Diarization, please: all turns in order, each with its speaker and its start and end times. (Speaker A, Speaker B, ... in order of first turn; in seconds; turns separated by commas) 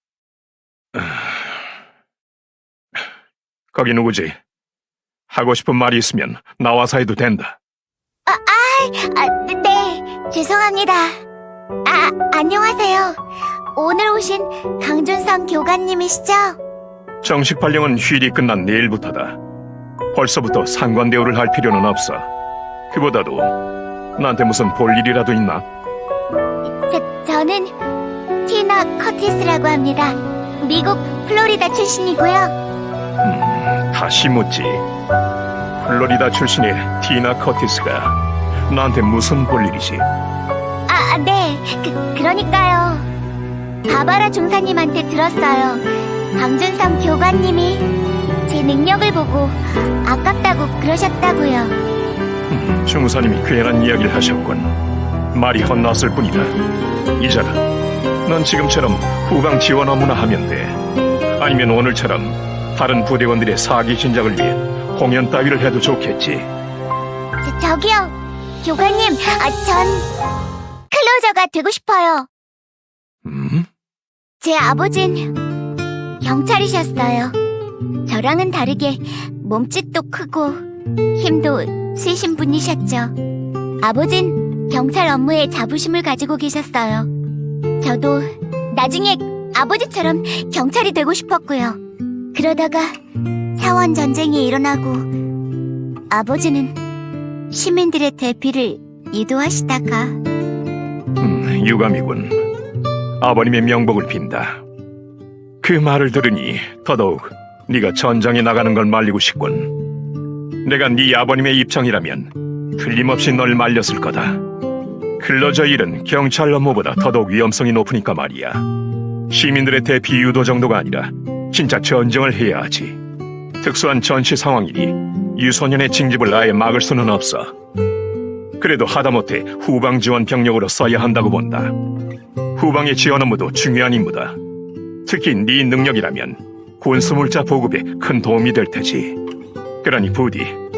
Speaker A: 0.9-1.2, Speaker A: 3.7-4.4, Speaker A: 5.3-7.6, Speaker B: 8.2-11.2, Speaker B: 11.8-13.2, Speaker B: 13.7-16.6, Speaker A: 17.2-19.4, Speaker A: 20.1-22.3, Speaker A: 22.9-23.5, Speaker A: 24.2-25.6, Speaker B: 26.8-27.7, Speaker B: 28.4-32.5, Speaker A: 33.2-34.8, Speaker A: 35.8-38.2, Speaker A: 38.7-40.0, Speaker B: 40.9-43.1, Speaker B: 43.9-47.9, Speaker B: 48.5-51.8, Speaker A: 52.5-54.7, Speaker A: 55.3-56.5, Speaker A: 57.2-57.6, Speaker A: 58.2-60.8, Speaker A: 61.4-66.5, Speaker B: 67.4-70.0, Speaker B: 70.9-72.3, Speaker A: 73.2-73.7, Speaker B: 74.4-75.4, Speaker B: 76.2-77.3, Speaker B: 78.0-80.6, Speaker B: 81.2-83.1, Speaker B: 83.8-87.1, Speaker B: 87.8-91.8, Speaker B: 92.3-93.0, Speaker B: 93.5-95.1, Speaker B: 96.1-96.8, Speaker B: 97.5-100.2, Speaker A: 101.2-102.4, Speaker A: 103.2-104.6, Speaker A: 105.6-109.7, Speaker A: 110.6-114.4, Speaker A: 115.2-118.6, Speaker A: 119.3-123.0, Speaker A: 123.6-127.5, Speaker A: 128.6-131.7, Speaker A: 132.6-134.3, Speaker A: 135.0-139.2, Speaker A: 139.8-140.6